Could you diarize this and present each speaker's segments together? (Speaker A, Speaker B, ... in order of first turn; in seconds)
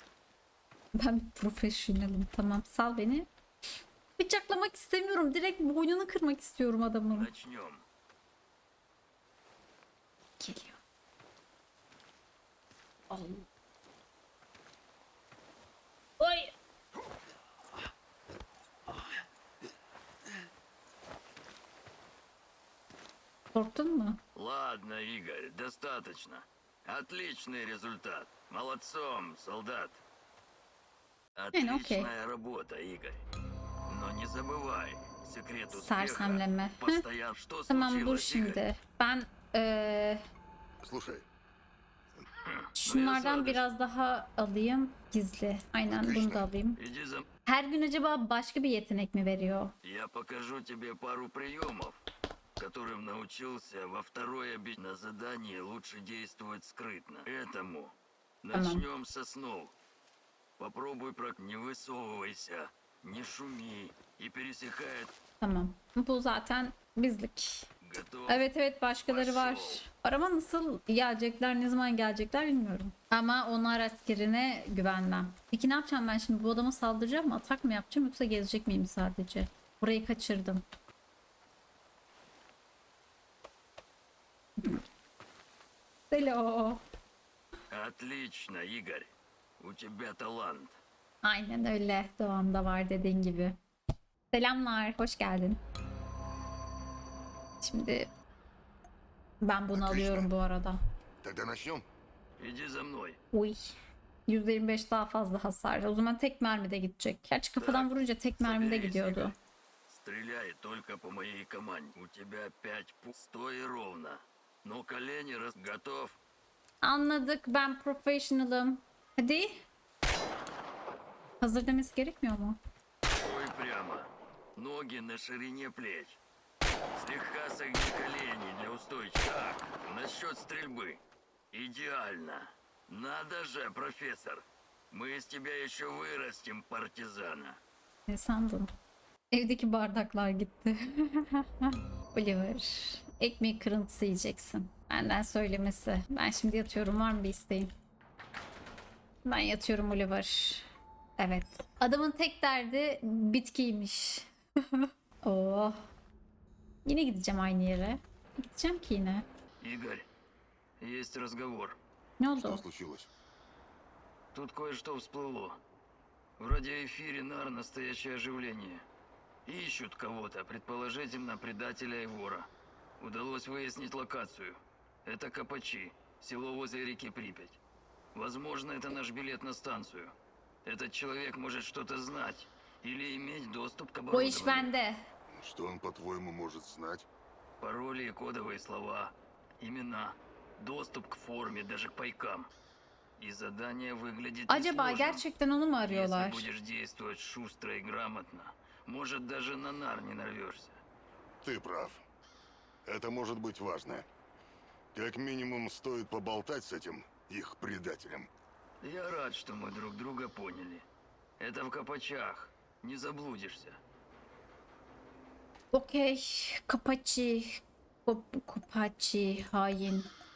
Speaker A: 1.0-3.3, 4.2-7.3, 10.4-10.8, 13.1-13.5, 16.2-16.5, 23.5-24.2, 31.5-32.1, 35.7-37.0, 37.7-40.2, 42.8-46.8, 47.5-49.7, 58.5-58.8, 65.4-67.7, 68.3-80.6, 84.6-84.8, 86.1-86.8, 91.2-93.6, 94.3-95.6, 97.6-98.1, 99.4-100.8, 103.3-103.6, 104.3-109.3, 116.8-119.7, 121.4-122.6, 138.1-138.7, 139.3-147.7, 149.2-150.7, 151.2-155.8, 156.8-159.3, 162.2-162.6, 184.1-185.0, 194.5-196.5, 215.7-220.1
Speaker B: 7.1-7.8, 24.4-30.0, 31.4-33.2, 33.9-38.6, 42.4-43.6, 46.8-47.3, 49.8-52.0, 52.6-59.7, 60.6-65.1, 67.8-68.5, 69.1-69.8, 87.7-90.8, 102.4-103.2, 107.6-109.3, 109.9-116.2, 123.2-126.2, 127.0-131.0, 131.5-137.6, 159.6-160.1, 160.8-161.8, 164.3-165.6, 166.4-168.8, 169.5-172.5, 173.0-177.6, 178.1-180.1, 180.7-184.7, 187.6-192.5, 193.2-195.2, 195.8-200.8, 208.8-210.8, 211.4-213.8
Speaker C: 40.8-41.2, 45.9-46.5, 99.7-100.3, 101.2-101.9, 162.3-163.1, 185.3-187.1, 201.4-202.0, 202.9-204.1, 204.9-208.3